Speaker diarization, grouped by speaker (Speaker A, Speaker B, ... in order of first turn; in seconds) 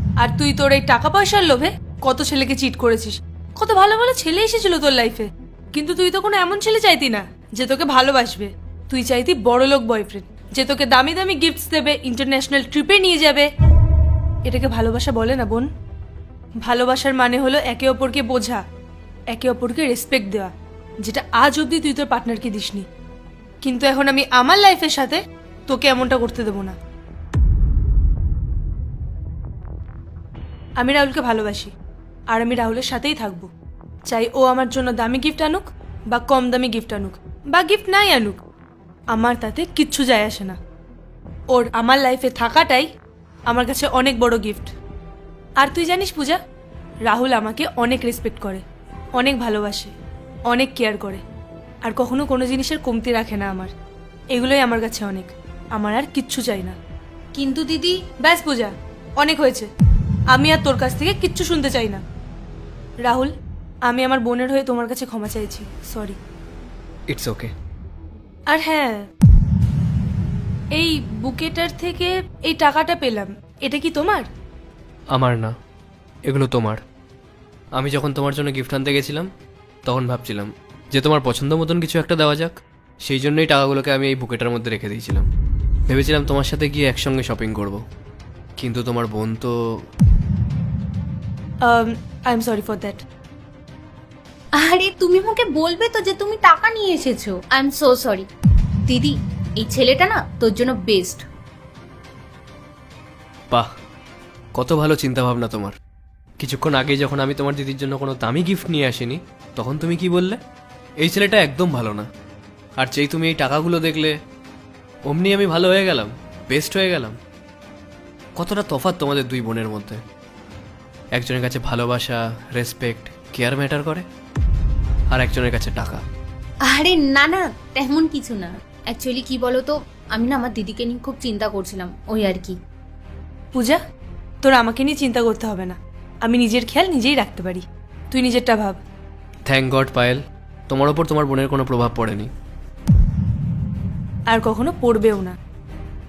Speaker A: 0.2-13.5, 14.5-15.7, 16.6-18.6, 19.3-20.5, 21.0-22.8, 23.6-26.7, 30.8-31.7, 32.3-33.5, 34.1-38.4, 39.1-40.6, 41.5-42.9, 43.5-44.7, 45.6-46.4, 47.0-48.6, 49.1-49.9, 50.5-51.2, 51.8-53.7, 54.3-56.8, 58.2-59.7, 60.3-62.0, 63.0-63.3, 63.9-66.2, 68.5-69.0, 70.7-74.3, 91.6-93.0, 133.5-133.8, 134.4-138.8, 144.3-145.3
Speaker B: 57.3-58.0, 94.6-98.3, 98.9-101.2, 126.7-132.6
Speaker C: 67.1-67.5, 75.1-75.5, 76.2-76.8, 77.7-79.3, 79.8-85.2, 85.9-87.8, 88.6-89.5, 104.5-105.7, 106.4-110.4, 111.0-112.0, 112.8-114.1, 115.1-117.2, 118.3-120.0, 121.1-124.0, 125.1-126.0, 139.5-142.3